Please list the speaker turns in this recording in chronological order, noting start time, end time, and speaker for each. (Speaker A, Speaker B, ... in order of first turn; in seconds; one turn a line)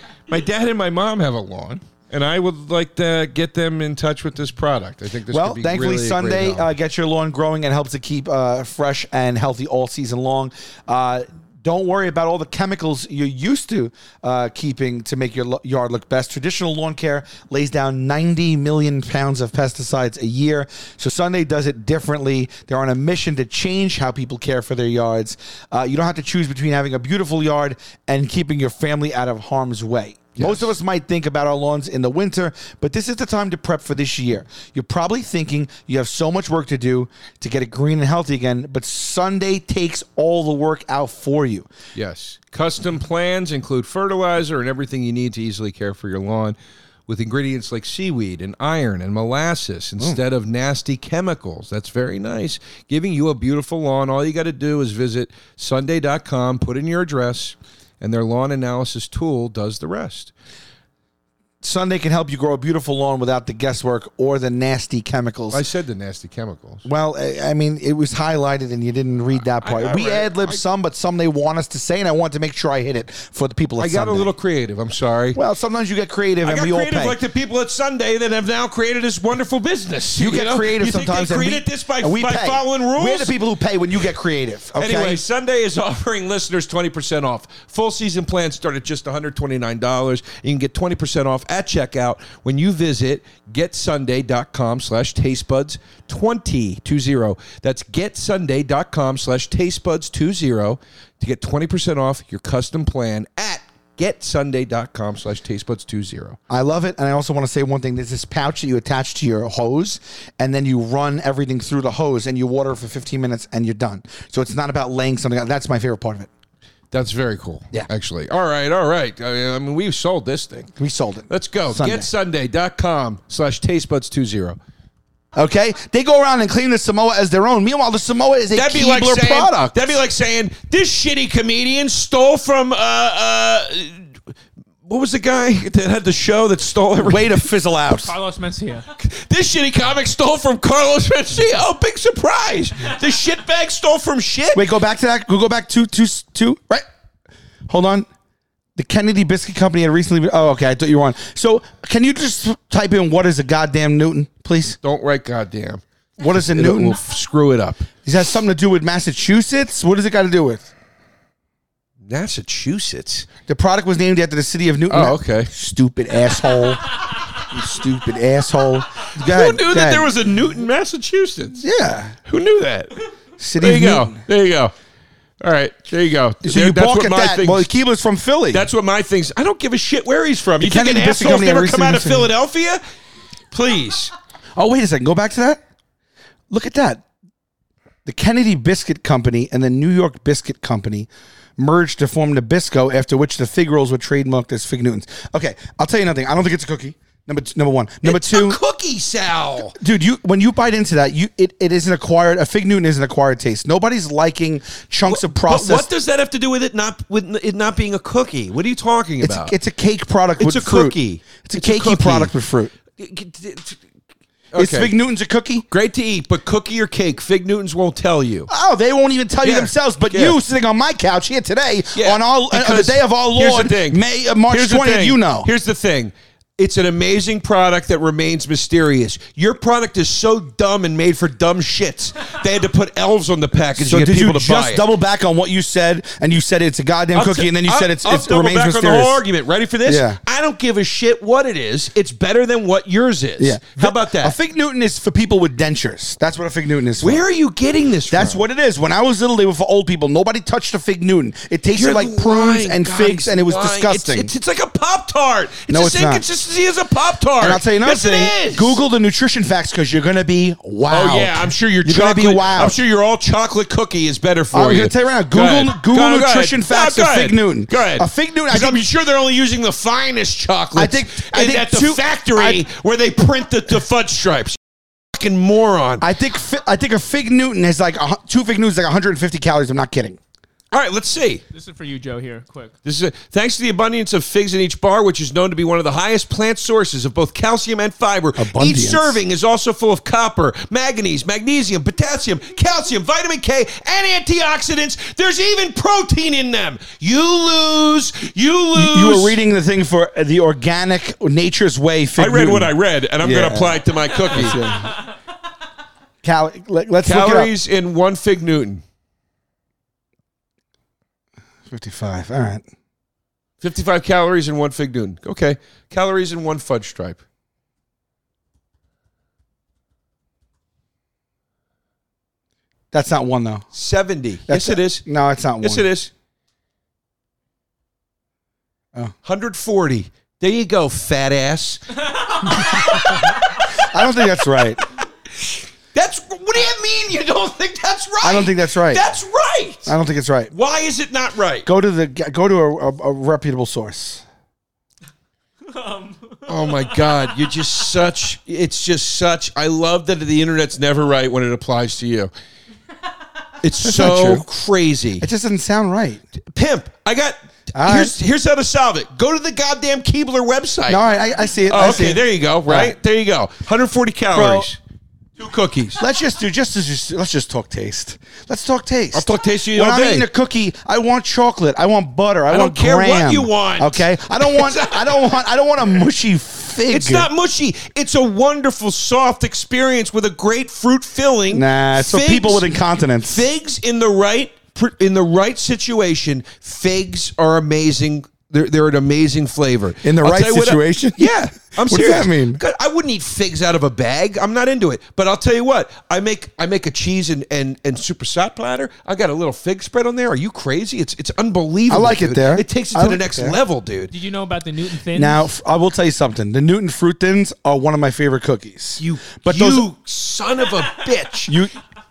Speaker A: 0.3-6.7
Speaker B: 5.3-41.7
Speaker A: 30.4-30.7
Speaker A: 42.0-46.6
Speaker A: 47.1-60.3
Speaker B: 61.6-65.6
Speaker A: 65.5-66.9
Speaker B: 66.8-74.3
Speaker A: 69.4-70.6
Speaker A: 73.8-75.4
Speaker B: 75.3-77.2
Speaker A: 76.4-83.3
Speaker B: 80.2-85.2
Speaker A: 84.8-106.4
Speaker B: 106.5-116.3
Speaker A: 116.9-120.7
Speaker B: 120.8-122.1
Speaker A: 121.3-124.6
Speaker B: 125.3-129.9
Speaker A: 128.5-134.1
Speaker A: 134.9-137.3
Speaker B: 137.0-138.1
Speaker C: 137.9-138.9
Speaker A: 139.0-144.7
Speaker B: 144.6-146.8
Speaker B: 147.7-148.1
Speaker B: 148.8-154.8
Speaker A: 154.8-157.9
Speaker B: 156.2-157.0
Speaker B: 158.1-160.7
Speaker A: 162.1-163.3
Speaker B: 163.5-166.9
Speaker A: 164.9-165.5
Speaker B: 167.4-170.1
Speaker A: 169.2-171.7
Speaker B: 171.6-172.2
Speaker A: 172.3-172.9
Speaker B: 173.4-174.2
Speaker A: 173.6-174.7
Speaker A: 175.4-177.7
Speaker B: 176.4-178.7
Speaker A: 178.5-182.8
Speaker B: 180.6-182.3
Speaker A: 183.5-184.1
Speaker B: 184.6-185.6
Speaker B: 186.5-187.0
Speaker B: 188.1-198.6
Speaker A: 198.0-199.8
Speaker B: 199.8-205.9
Speaker A: 205.1-209.5
Speaker B: 209.2-212.7
Speaker A: 210.4-212.3
Speaker A: 213.0-213.8
Speaker A: 214.5-214.9
Speaker B: 214.6-215.7
Speaker A: 215.7-218.5
Speaker B: 218.5-225.5
Speaker A: 219.4-220.4
Speaker A: 221.9-234.9
Speaker B: 233.8-239.2
Speaker A: 237.1-244.4
Speaker B: 239.9-240.2
Speaker B: 243.4-247.2
Speaker A: 247.0-248.4
Speaker B: 248.1-254.3
Speaker A: 251.7-258.8
Speaker B: 255.7-256.2
Speaker B: 257.4-262.8
Speaker A: 260.9-274.6
Speaker B: 264.5-268.8
Speaker B: 270.8-272.6
Speaker A: 275.1-276.1
Speaker B: 276.0-280.2
Speaker A: 280.7-281.4
Speaker C: 281.5-282.8
Speaker A: 282.9-299.4
Speaker B: 288.4-289.2
Speaker B: 298.7-304.9
Speaker A: 302.2-304.7
Speaker B: 306.2-307.5
Speaker A: 307.0-308.8
Speaker B: 311.7-312.6
Speaker A: 313.6-317.2
Speaker B: 322.9-323.7
Speaker A: 323.7-325.1
Speaker B: 324.5-325.9
Speaker A: 325.6-326.1
Speaker A: 329.2-331.8
Speaker A: 332.5-333.1
Speaker B: 333.7-334.8
Speaker A: 335.9-340.0
Speaker B: 338.2-339.1
Speaker B: 339.9-340.5
Speaker A: 340.5-341.7
Speaker B: 341.7-344.2
Speaker C: 345.7-347.1
Speaker A: 346.5-352.3
Speaker A: 353.6-355.3
Speaker B: 353.8-354.5
Speaker B: 355.2-356.2
Speaker A: 356.4-361.0
Speaker B: 357.8-358.1
Speaker B: 360.9-362.9
Speaker A: 361.7-364.8
Speaker B: 364.3-364.7
Speaker A: 365.4-366.0
Speaker B: 366.0-377.3
Speaker A: 369.1-370.3
Speaker A: 372.5-375.3
Speaker A: 376.9-382.7
Speaker B: 381.5-383.4
Speaker A: 383.3-404.1
Speaker B: 390.0-392.6
Speaker B: 401.9-403.6
Speaker C: 404.1-405.5
Speaker B: 405.1-409.9
Speaker A: 409.0-411.5
Speaker B: 411.5-411.7